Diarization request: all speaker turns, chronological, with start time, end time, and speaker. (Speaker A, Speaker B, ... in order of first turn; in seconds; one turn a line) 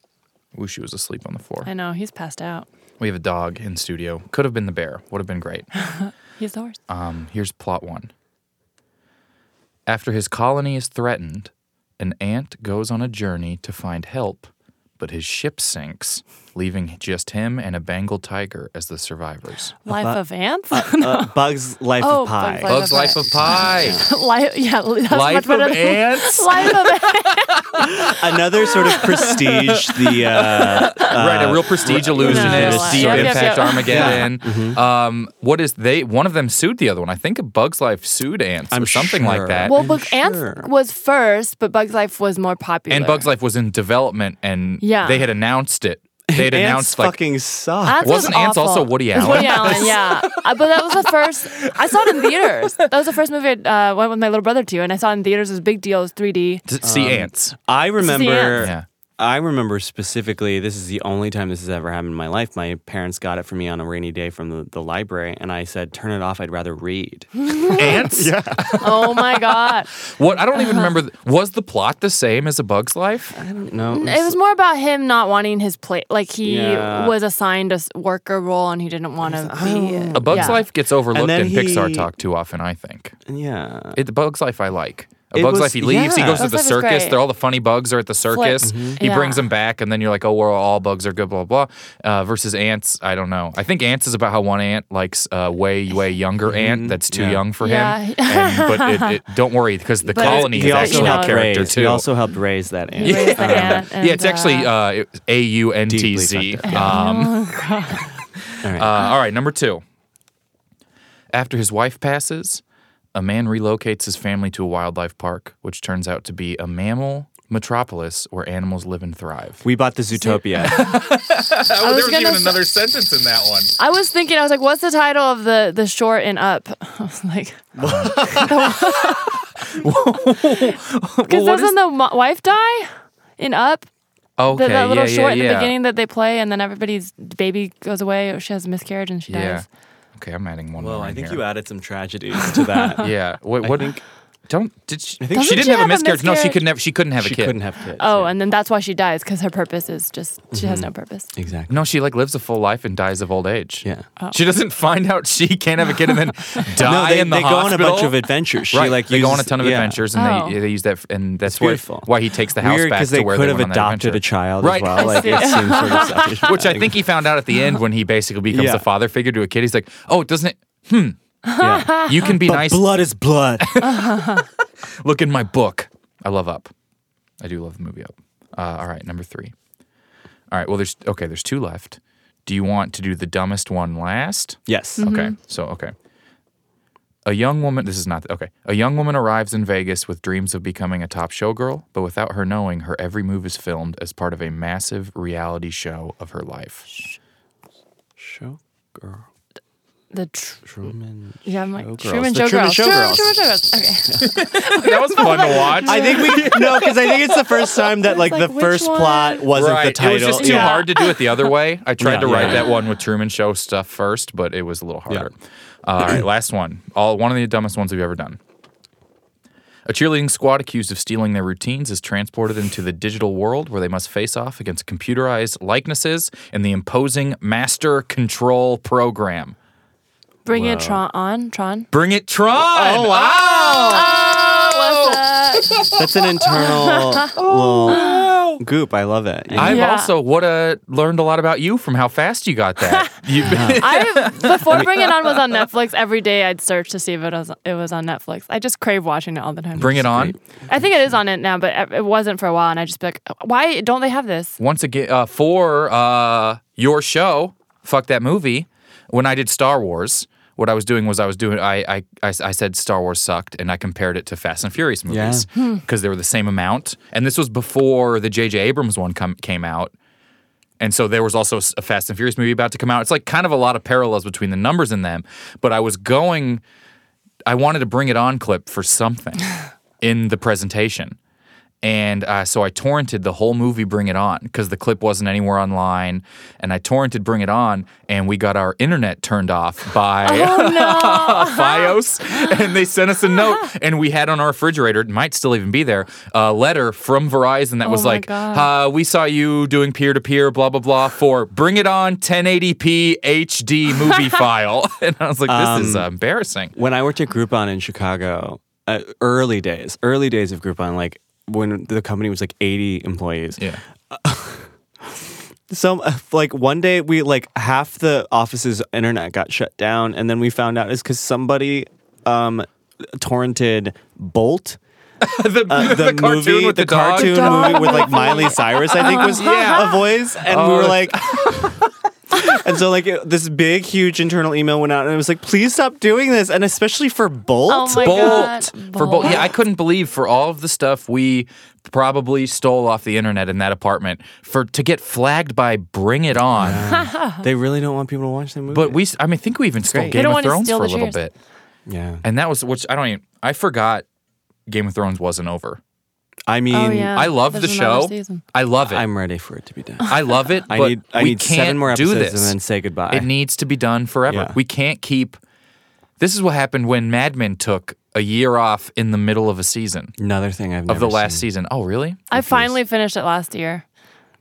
Speaker A: 0.5-1.7
Speaker B: 1.6-2.7
Speaker A: 3.0-5.7
Speaker B: 5.8-6.8
Speaker A: 6.9-8.1
Speaker A: 9.9-19.8
Speaker B: 19.9-21.3
Speaker C: 19.9-24.1
Speaker B: 22.0-28.1
Speaker A: 22.7-24.0
Speaker A: 25.1-28.1
Speaker C: 27.9-34.8
Speaker B: 28.7-29.4
Speaker A: 28.9-39.8
Speaker B: 30.8-31.1
Speaker B: 32.2-34.3
Speaker C: 38.7-40.7
Speaker B: 39.7-43.3
Speaker A: 42.9-47.2
Speaker B: 44.8-45.2
Speaker C: 46.3-48.4
Speaker B: 47.9-56.6
Speaker A: 48.0-52.9
Speaker C: 49.2-49.9
Speaker A: 56.7-57.5
Speaker C: 56.8-68.8
Speaker B: 58.0-58.7
Speaker A: 58.6-58.9
Speaker B: 67.5-68.0
Speaker A: 67.7-73.4
Speaker B: 68.8-69.9
Speaker B: 70.5-70.9
Speaker C: 73.3-74.4
Speaker B: 73.9-80.6
Speaker C: 76.4-77.2
Speaker C: 79.2-82.1
Speaker A: 80.2-83.2
Speaker C: 83.3-84.0
Speaker A: 84.0-102.1
Speaker C: 85.3-86.5
Speaker B: 86.3-87.2
Speaker B: 88.3-89.5
Speaker C: 88.6-89.0
Speaker C: 96.5-97.4
Speaker B: 97.6-99.2
Speaker B: 100.1-101.7
Speaker C: 100.2-103.8
Speaker B: 103.0-104.7
Speaker A: 103.0-107.4
Speaker C: 105.9-107.0
Speaker B: 106.7-108.1
Speaker C: 108.6-109.0
Speaker A: 108.7-109.8
Speaker A: 111.3-112.6
Speaker A: 113.2-119.6
Speaker C: 119.6-120.8
Speaker B: 120.2-120.9
Speaker A: 120.6-123.7
Speaker B: 121.8-122.6
Speaker B: 123.8-129.5
Speaker C: 127.8-128.5
Speaker A: 127.8-131.8
Speaker B: 130.2-130.8
Speaker B: 131.3-133.9
Speaker A: 134.4-135.7
Speaker B: 134.5-139.7
Speaker A: 139.3-139.7
Speaker A: 140.2-141.4
Speaker C: 140.8-144.0
Speaker A: 143.0-147.6
Speaker C: 145.2-145.6
Speaker B: 145.3-146.6
Speaker C: 147.2-148.3
Speaker B: 148.0-151.3
Speaker C: 150.5-151.8
Speaker A: 151.7-172.9
Speaker C: 156.8-160.0
Speaker B: 160.1-160.6
Speaker C: 161.4-166.9
Speaker B: 164.8-166.5
Speaker C: 168.5-168.9
Speaker B: 171.5-172.2
Speaker C: 171.6-173.8
Speaker A: 173.6-174.5
Speaker B: 174.0-174.4
Speaker A: 175.0-176.7
Speaker A: 177.4-179.5
Speaker A: 180.5-185.9
Speaker C: 184.7-185.1
Speaker B: 185.0-185.3
Speaker A: 187.2-196.9
Speaker C: 198.2-199.3
Speaker B: 200.1-200.7
Speaker C: 200.7-203.4
Speaker B: 201.4-206.6
Speaker A: 204.2-207.2
Speaker C: 205.8-210.9
Speaker B: 207.9-209.5
Speaker A: 209.5-218.4
Speaker B: 210.2-211.3
Speaker C: 212.0-212.7
Speaker B: 212.4-212.7
Speaker A: 219.9-229.6
Speaker B: 230.4-231.9
Speaker C: 230.5-231.0
Speaker A: 231.9-236.7
Speaker C: 232.6-234.1
Speaker B: 233.6-235.9
Speaker C: 235.9-239.9
Speaker B: 236.6-237.3
Speaker A: 237.3-238.6
Speaker B: 237.9-238.2
Speaker A: 239.6-245.4
Speaker B: 239.6-240.1
Speaker B: 242.9-254.6
Speaker C: 243.4-243.9
Speaker A: 249.8-250.4
Speaker C: 249.8-250.7
Speaker A: 254.6-269.9
Speaker C: 265.1-265.5
Speaker A: 270.8-276.6
Speaker A: 277.5-279.5
Speaker A: 280.0-281.2
Speaker A: 281.8-306.7
Speaker B: 290.2-292.5
Speaker B: 297.8-298.7
Speaker C: 305.5-306.1
Speaker C: 306.8-324.8
Speaker A: 325.2-328.1
Speaker C: 325.7-331.8
Speaker B: 327.1-329.8
Speaker A: 329.1-332.5
Speaker C: 332.3-338.5
Speaker B: 337.7-339.5
Speaker A: 338.0-346.9
Speaker C: 346.5-349.0
Speaker B: 346.9-347.4
Speaker A: 348.7-351.3
Speaker C: 349.8-350.2
Speaker B: 350.1-351.2
Speaker C: 351.9-352.2
Speaker A: 352.2-354.1
Speaker A: 354.7-355.8
Speaker C: 356.5-357.3
Speaker B: 356.7-358.4
Speaker A: 357.1-359.1
Speaker C: 358.8-363.3
Speaker A: 360.1-362.6
Speaker A: 363.1-365.4
Speaker C: 364.3-364.6
Speaker A: 366.2-370.1
Speaker C: 370.2-371.5
Speaker A: 370.9-372.7
Speaker B: 372.3-373.8